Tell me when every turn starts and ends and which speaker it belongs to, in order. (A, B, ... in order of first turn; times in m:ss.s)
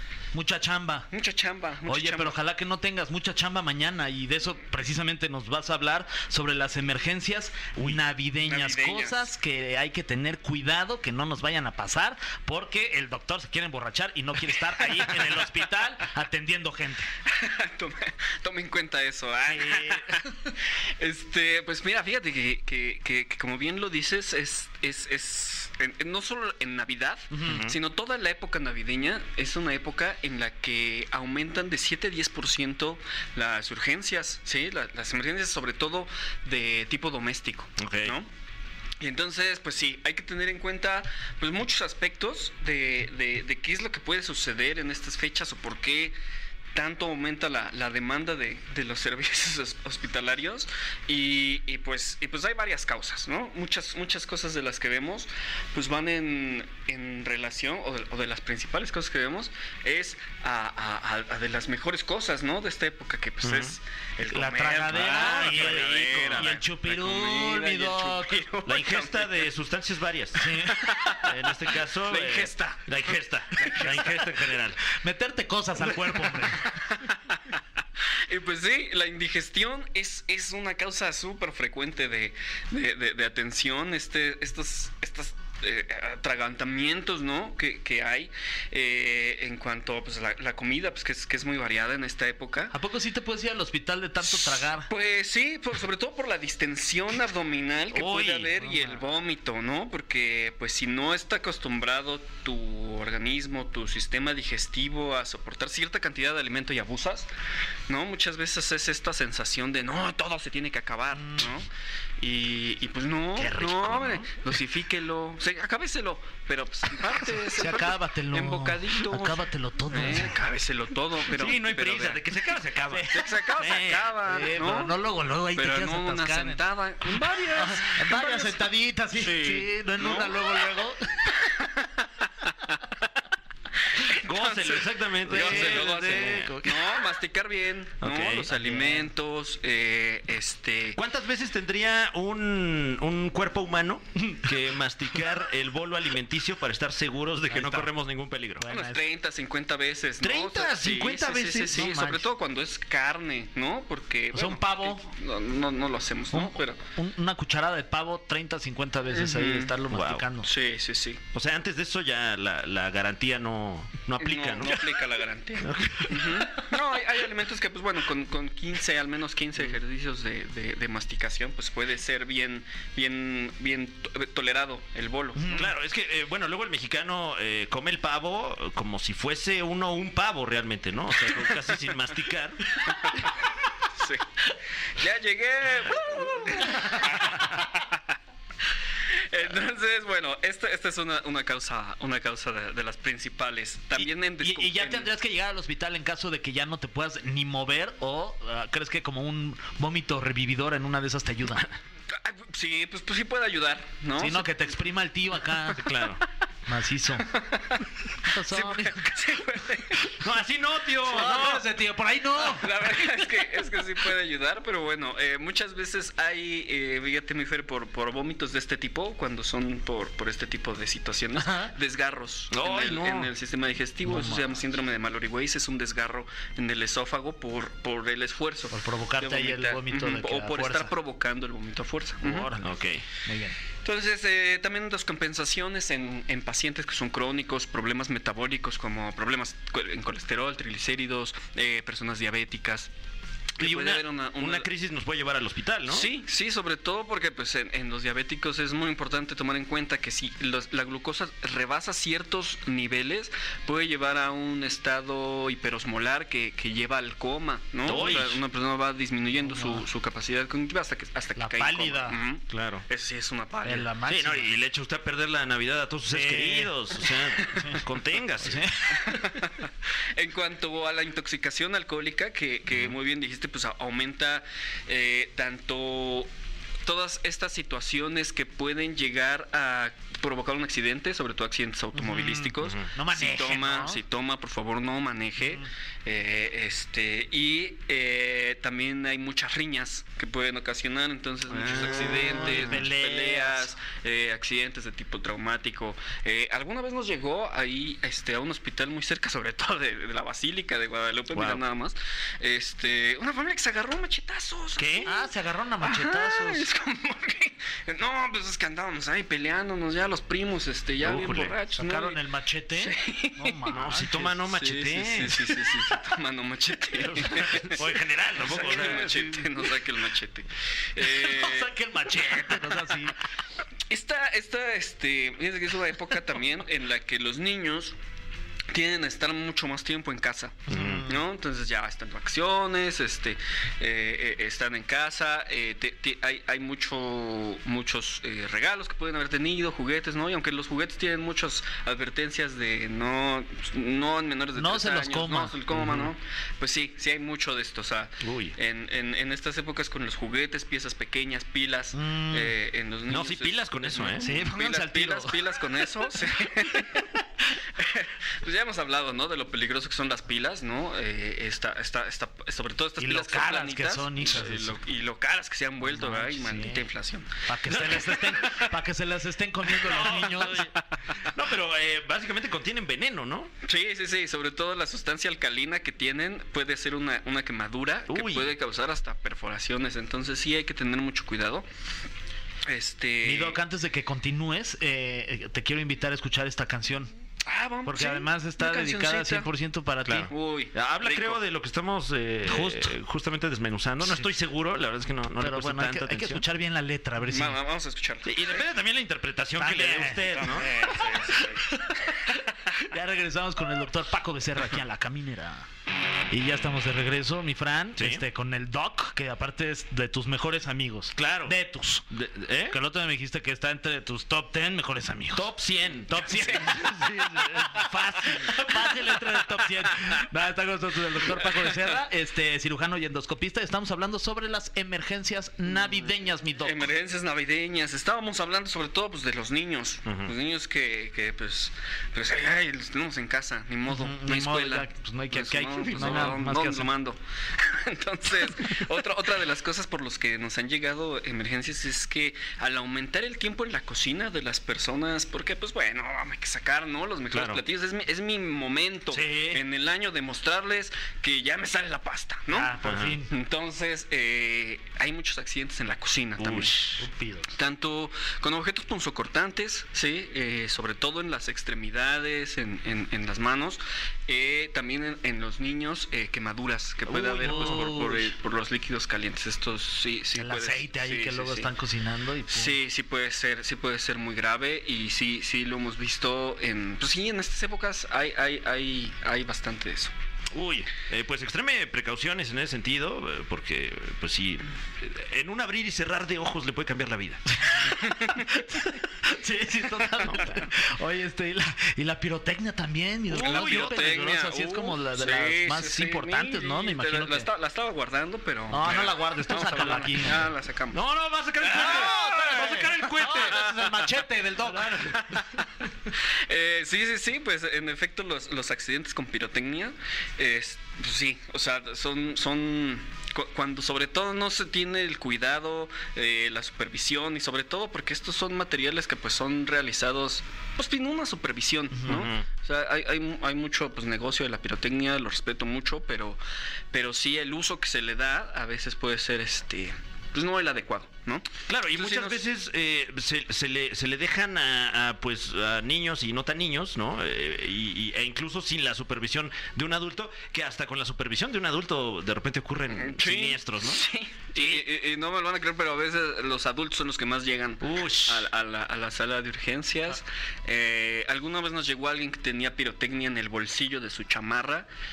0:00.3-0:01.1 A
0:01.1-0:02.4 B
0:01.9-0:17.1 A
0:08.4-0:09.3 B
0:17.3-0:38.3 B
0:19.5-0:20.2 A
0:27.3-0:27.6 A
0:27.5-0:27.8 C
0:37.8-0:38.2 C
0:39.0-0:46.2 B
0:46.8-1:09.5 B
1:03.4-1:03.8 C
1:04.3-1:08.4 A
1:04.9-1:06.6 C
1:08.7-1:14.8 C
1:10.4-1:10.9 A
1:10.8-1:11.4 B
1:12.1-1:13.0 B
1:13.6-1:14.2 B
1:14.9-1:16.7 A
1:16.7-1:17.4 B
1:18.3-1:32.7 B
1:32.7-1:34.9 A
1:34.3-1:47.3 B
1:37.9-1:38.5 C
1:38.6-1:39.0 A
1:47.9-1:51.7 B
1:51.2-1:51.5 A
1:52.2-2:02.2 B
1:53.4-1:54.4 C
1:57.5-2:00.4 A
2:01.3-2:04.1 C
2:02.9-2:03.3 A
2:03.1-2:05.0 B
2:04.2-2:11.4 A
2:05.5-2:10.5 B
2:11.6-2:11.8 B
2:14.0-2:21.0 B
2:14.1-2:16.6 C
2:15.3-2:16.7 A
2:18.0-2:18.5 C
2:18.5-2:19.1 A
2:21.0-2:28.7 C
2:27.5-2:27.9 A
2:28.6-2:29.0 A
2:28.7-2:36.8 B
2:30.2-2:31.9 C
2:31.7-2:32.2 A
2:34.3-2:35.1 A
2:36.3-2:40.5 A
2:39.1-2:39.8 B
2:39.9-2:40.3 C
2:40.4-2:41.2 B
2:41.3-2:44.9 C
2:44.2-2:55.7 B
2:45.6-2:46.5 C
2:55.4-2:55.7 A
2:55.5-3:02.9 C
3:02.9-3:03.3 B
3:04.0-3:04.2 B
3:05.0-3:08.0 B
3:09.2-3:15.1 B
3:14.0-3:21.7 A
3:22.1-3:24.5 B
3:24.2-3:25.9 A
3:25.8-3:26.2 C
3:26.7-3:27.4 A
3:27.3-3:27.9 B
3:28.3-3:29.2 A
3:28.5-3:30.1 B
3:30.0-3:31.7 C
3:31.1-3:32.7 A
3:32.4-3:52.6 B
3:41.4-3:41.7 A
3:42.5-3:43.3 C
3:44.1-3:44.4 A
3:48.7-3:50.9 A
3:52.2-3:53.6 A
3:52.6-3:53.0 C
3:53.8-4:02.9 B
4:03.6-4:04.7 B
4:03.6-4:06.1 C
4:05.9-4:23.9 B
4:17.9-4:18.4 C
4:19.4-4:19.8 A
4:21.4-4:22.2 A
4:22.5-4:22.8 C
4:23.6-4:24.5 A
4:24.1-4:28.7 C
4:26.1-4:27.8 A
4:28.4-4:29.0 A
4:29.1-4:36.3 B
4:36.8-5:05.2 B
4:42.0-4:44.0 A
4:51.5-4:52.9 C
4:51.8-4:53.7 A
5:01.3-5:01.6 C
5:04.8-5:05.1 C
5:05.0-5:06.7 A
5:05.8-5:12.2 B
5:11.0-5:11.5 C
5:11.8-5:14.4 A
5:12.8-5:13.8 B
5:13.7-5:15.8 C
5:14.4-5:21.8 B
5:17.0-5:19.3 C
5:18.6-5:19.4 A
5:21.0-5:23.2 A
5:23.9-5:28.0 B
5:28.7-5:57.2 B
5:30.7-5:31.1 A
5:30.7-5:31.1 C
5:44.6-5:46.0 A
5:45.7-5:46.0 C
5:48.2-5:48.6 C
5:51.9-5:52.5 A
5:53.1-5:54.3 C
5:54.2-5:55.4 A
5:57.8-6:07.3 B
6:03.0-6:04.8 A
6:05.8-6:06.9 A
6:07.4-6:10.7 A
6:07.7-6:08.7 C
6:09.7-6:13.5 C
6:13.6-6:21.7 B
6:18.1-6:18.5 C
6:22.7-6:23.6 B
6:23.2-6:27.1 A
6:27.4-6:29.5 B
6:27.8-6:30.3 A
6:30.1-6:36.4 C
6:30.3-6:31.4 B
6:32.5-6:32.9 A
6:35.4-6:37.6 A
6:37.3-6:38.6 B
6:38.2-6:40.7 C
6:39.6-6:40.6 A
6:40.3-6:41.8 B
6:41.6-6:45.7 A
6:46.3-6:52.1 A
6:48.0-6:48.2 C
6:51.2-6:51.6 C
6:52.1-6:52.8 C
6:52.7-6:55.5 A
6:55.3-6:58.8 C
6:56.1-7:06.9 A
6:56.4-6:56.7 B
7:01.4-7:01.9 B
7:05.7-7:36.9 B
7:10.0-7:10.3 C
7:13.9-7:16.9 A
7:27.3-7:27.6 C
7:29.1-7:29.6 A
7:32.5-7:33.3 A
7:32.8-7:33.2 C
7:36.4-7:37.0 C
7:37.0-7:37.5 A
7:37.5-7:51.7 B
7:47.1-7:48.3 A
7:47.3-7:48.1 C
7:50.4-7:52.8 A
7:52.5-8:00.1 B
8:00.5-8:07.8 C
8:07.7-8:17.5 A
8:10.2-8:10.6 C
8:13.3-8:14.1 C
8:13.3-8:21.0 B
8:18.7-8:20.5 A
8:20.9-8:23.8 C
8:21.6-8:22.3 B
8:21.6-8:25.4 A
8:23.2-8:24.0 B
8:25.1-8:25.7 B
8:26.5-8:46.4 B
8:41.9-8:42.3 A
8:42.1-8:42.4 C
8:46.9-8:52.4 B
8:51.7-9:04.0 C
9:03.0-9:14.9 B
9:04.6-9:04.8 C
9:07.8-9:08.5 C